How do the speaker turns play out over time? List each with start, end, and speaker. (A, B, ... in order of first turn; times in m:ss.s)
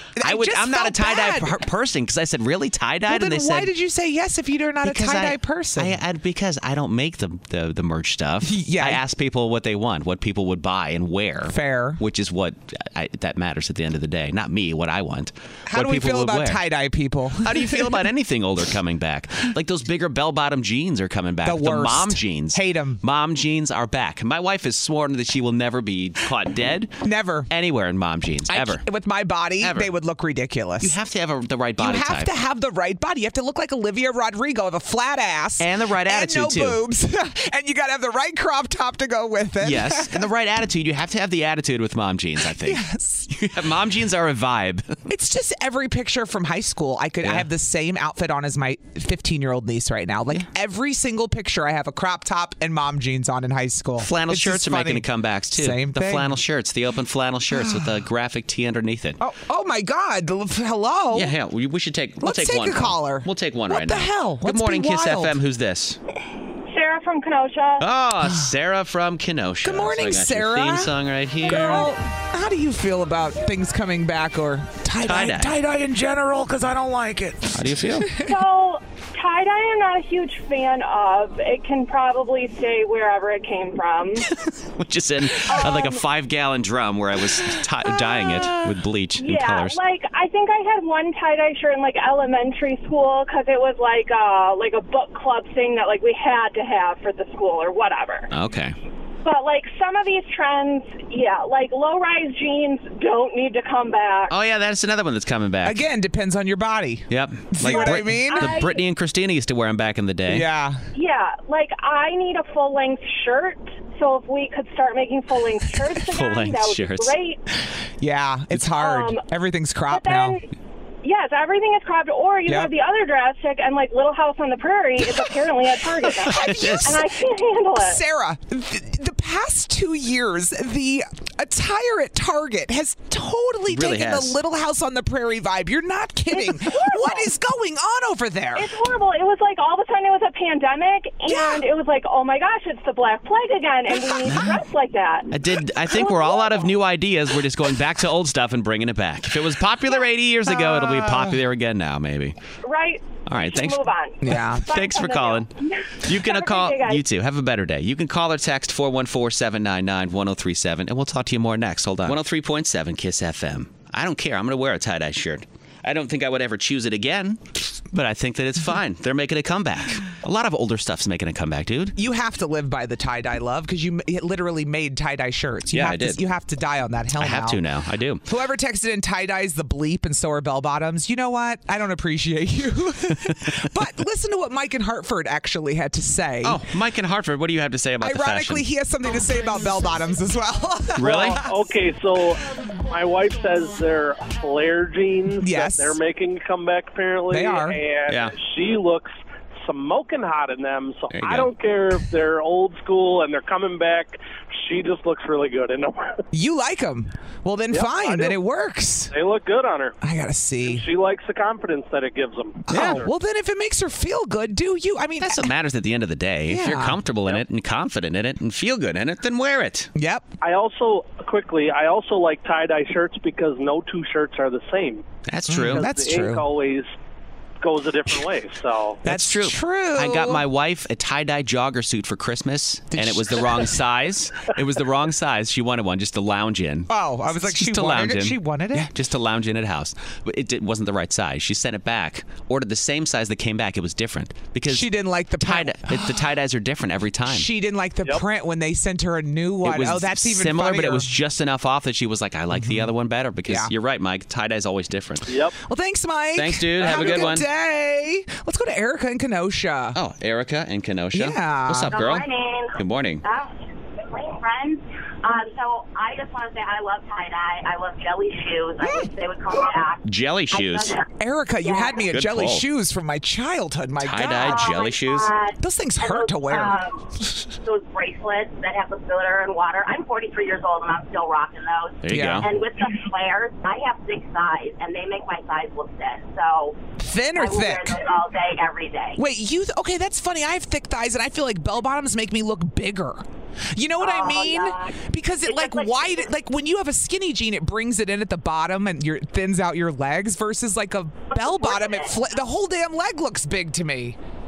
0:00.2-0:01.6 A
0:00.2-0:03.7 B
0:03.1-0:06.0 A
0:04.8-0:16.6 B
0:08.4-0:09.0 A
0:11.5-0:12.0 A
0:15.7-0:17.9 A
0:17.4-0:26.9 B
0:21.4-0:23.0 A
0:27.0-0:27.5 A
0:27.5-0:28.8 B
0:28.5-0:31.0 A
0:29.6-0:29.9 B
0:30.8-0:32.3 B
0:31.8-0:40.2 A
0:35.6-0:36.8 B
0:39.6-0:45.0 B
0:42.5-0:43.3 A
0:45.1-0:56.4 A
0:47.2-0:47.5 B
0:54.0-0:59.2 B
0:57.5-0:58.0 A
0:59.2-1:01.3 A
1:01.1-1:06.0 B
1:02.2-1:05.3 A
1:06.7-1:07.8 C
1:07.8-1:11.9 B
1:09.6-1:10.9 A
1:11.4-1:17.6 A
1:15.0-1:15.6 B
1:17.5-1:18.1 B
1:18.2-1:24.3 C
1:24.3-1:29.8 B
1:25.5-1:26.0 C
1:28.0-1:28.7 A
1:29.2-1:38.3 C
1:38.3-1:38.8 B
1:39.2-1:44.3 C
1:44.3-1:45.8 B
1:45.6-1:48.6 A
1:47.1-1:50.5 B
1:47.6-1:48.8 C
1:50.3-1:50.9 A
1:50.9-1:57.4 C
1:56.0-1:57.2 B
1:58.0-2:00.4 A
1:58.8-1:59.2 C
1:59.9-2:00.5 C
2:01.0-2:08.0 C
2:06.2-2:07.0 A
2:06.3-2:07.0 B
2:07.8-2:18.7 A
2:13.7-2:14.4 B
2:16.3-2:17.3 C
2:18.6-2:26.8 C
2:21.3-2:21.6 A
2:24.2-2:24.6 B
2:25.3-2:32.4 B
2:30.5-2:31.4 A
2:32.6-2:37.0 C
2:33.3-2:35.5 B
2:34.2-2:34.7 A
2:36.0-2:52.0 B
2:52.0-2:57.6 A
2:55.7-2:56.2 B
2:57.2-2:58.2 B
2:58.3-3:06.6 A
3:06.4-3:08.6 B
3:08.0-3:11.5 A
3:11.0-3:11.4 B
3:11.0-3:26.2 D
3:15.4-3:16.0 A
3:17.3-3:17.8 A
3:18.1-3:18.4 B
3:21.1-3:21.5 B
3:26.3-3:29.1 A
3:27.7-3:28.4 D
3:29.1-3:30.0 D
3:30.0-3:30.8 A
3:30.6-3:33.1 D
3:32.7-3:35.5 A
3:32.7-3:33.0 B
3:35.2-3:39.9 B
3:36.5-3:37.0 A
3:40.0-3:40.3 A
3:40.4-3:45.0 D
3:45.3-3:45.9 B
3:45.5-3:46.4 A
3:45.6-3:46.9 D
3:47.6-3:49.0 D
3:49.0-3:50.4 A
3:49.0-4:04.9 B
3:52.9-3:53.7 A
3:56.9-3:58.9 A
4:04.7-4:06.2 A
4:05.4-4:07.5 B
4:07.3-4:11.1 A
4:09.6-4:15.3 B
4:12.6-4:12.9 A
4:15.3-4:15.6 D
4:15.6-4:20.0 A
4:16.4-4:17.5 B
4:16.9-4:17.2 D
4:20.0-4:23.2 B
4:21.1-4:22.0 A
4:21.9-4:31.0 E
4:30.1-4:31.0 B
4:31.2-4:34.7 A
4:31.6-4:32.0 E
4:32.1-4:32.6 B
4:34.0-4:35.3 B
4:34.4-4:37.1 E
4:35.6-4:36.8 A
4:37.6-4:46.8 E
4:42.0-4:42.5 B
4:42.1-4:42.5 A
4:47.0-4:48.0 A
4:47.4-4:49.2 E
4:49.2-5:04.2 A
4:54.0-4:55.0 E
4:55.5-4:56.3 E
5:01.3-5:02.1 E